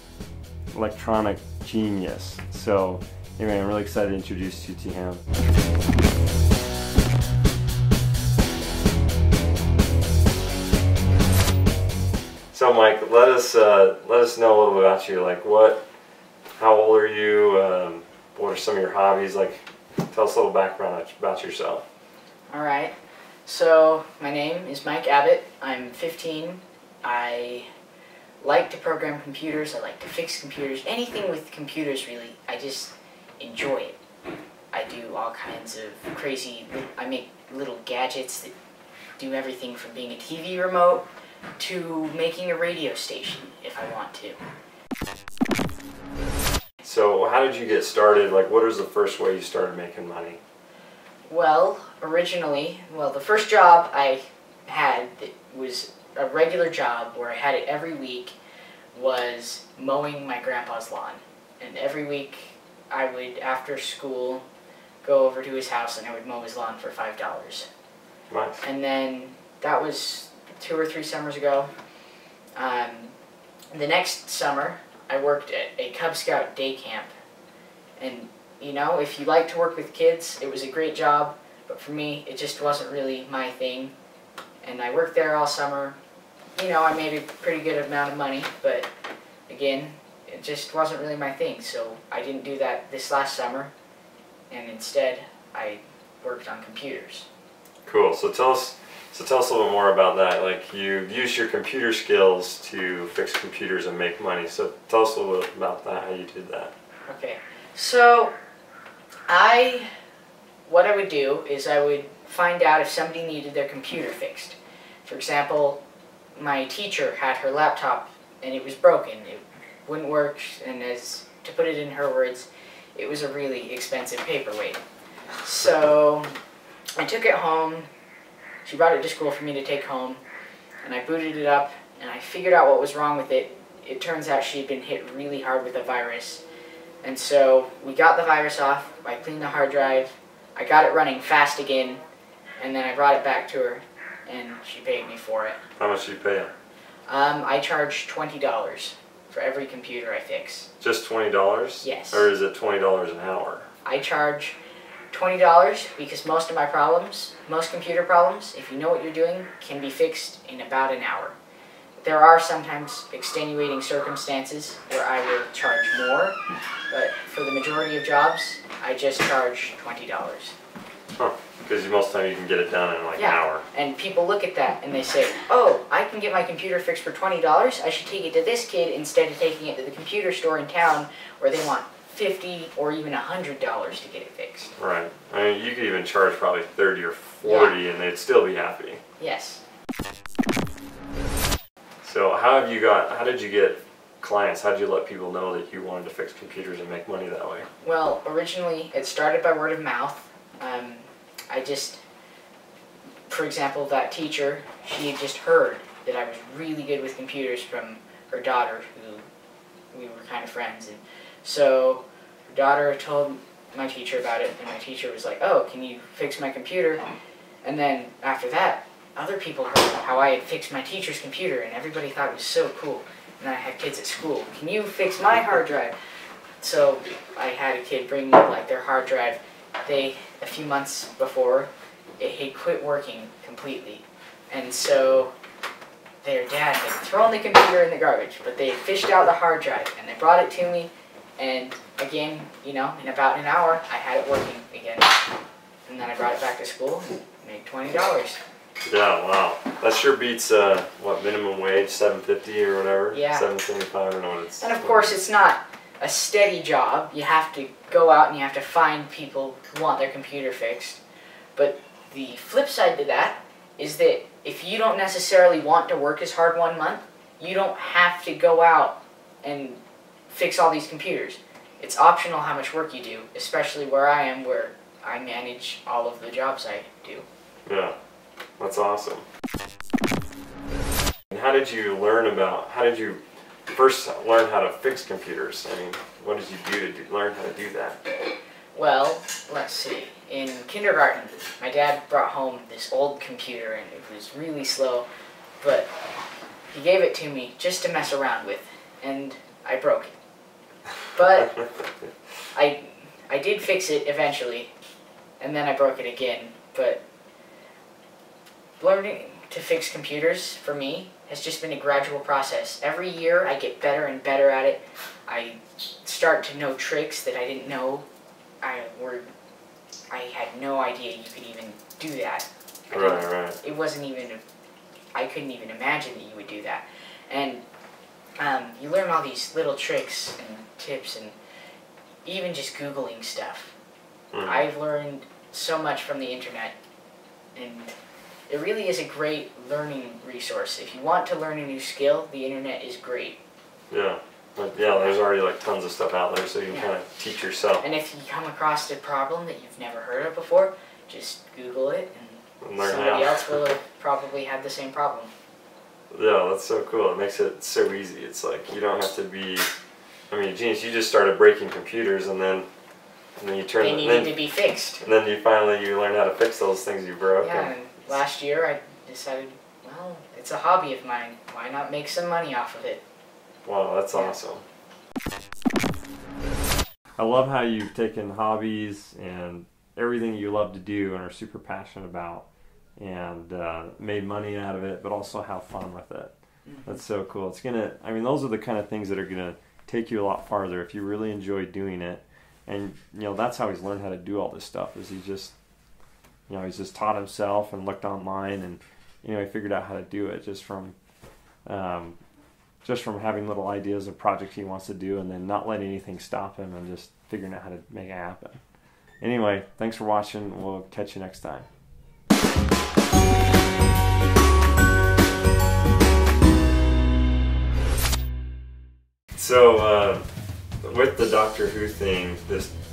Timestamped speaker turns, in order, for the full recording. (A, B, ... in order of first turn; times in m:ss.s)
0:00.7-0:05.2 A
0:12.5-0:15.8 A
0:16.6-0:21.8 A
0:22.5-0:22.9 B
0:23.4-0:27.7 B
0:28.4-0:34.0 B
0:34.7-0:38.5 B
0:39.2-0:41.1 B
0:41.6-0:44.4 B
0:46.8-0:50.4 A
0:51.3-0:58.4 B
0:58.9-1:04.4 B
1:05.0-1:07.7 B
1:08.3-1:08.6 A
1:08.6-1:11.7 B
1:12.6-1:13.1 B
1:13.7-1:17.1 B
1:18.0-1:23.9 B
1:24.6-1:26.0 B
1:26.5-1:28.9 B
1:29.5-1:33.7 B
1:34.5-1:37.3 B
1:37.8-1:46.7 A
1:47.1-1:48.3 B
1:49.3-1:49.9 B
1:50.6-1:55.8 B
1:56.4-2:04.8 B
2:05.4-2:06.3 B
2:07.0-2:07.9 B
2:08.6-2:10.2 B
2:10.8-2:16.4 B
2:17.0-2:22.0 B
2:22.6-2:25.6 B
2:25.8-2:26.5 A
2:27.1-2:30.7 B
2:30.8-2:33.7 A
2:31.8-2:32.3 B
2:33.8-2:34.6 B
2:35.1-2:41.4 B
2:42.0-2:46.4 B
2:46.9-2:50.5 B
2:51.2-2:53.6 A
2:53.2-3:04.7 B
3:04.8-3:09.0 A
3:07.4-3:07.8 B
3:09.2-3:09.6 B
3:12.0-3:17.7 A
3:17.8-3:22.0 B
3:23.3-3:29.2 B
3:29.9-3:37.0 B
3:37.6-3:45.9 B
3:46.6-3:55.3 B
3:56.2-4:05.2 B
4:05.9-4:08.4 B
4:08.8-4:15.2 A
4:13.1-4:13.5 B
4:14.6-4:21.0 B
4:21.5-4:37.2 B
4:37.6-4:38.0 A
4:38.6-4:39.2 A
4:41.3-4:48.0 A
4:48.7-4:55.1 B
4:55.6-4:55.9 B
4:56.7-5:00.1 B
5:01.1-5:01.7 B
5:02.5-5:04.7 B
5:05.4-5:07.0 B
5:08.8-5:18.0 B
5:18.6-5:19.3 B
5:20.1-5:24.4 B
5:22.9-5:23.6 A
5:25.1-5:27.6 B
5:28.4-5:31.4 B
5:32.2-5:33.7 B
5:34.3-5:34.6 A
5:34.4-5:36.7 B
5:37.5-5:37.9 B
5:38.5-5:43.4 B
5:43.9-5:47.8 A
5:44.8-5:45.1 B
5:47.8-5:55.3 B
5:52.6-5:53.5 A
5:56.1-5:59.7 A
6:00.3-6:02.7 A
6:03.4-6:04.4 A
6:03.8-6:05.0 B
6:05.0-6:07.7 A
6:07.4-6:13.0 B
6:13.6-6:14.6 A
6:17.2-6:26.3 A
6:26.6-6:27.0 B
6:26.8-6:35.5 A
6:36.5-6:41.0 A
6:41.6-6:42.2 A
6:42.8-6:48.6 A
6:49.2-6:51.7 A
6:59.3-7:00.2 A
7:00.8-7:02.7 A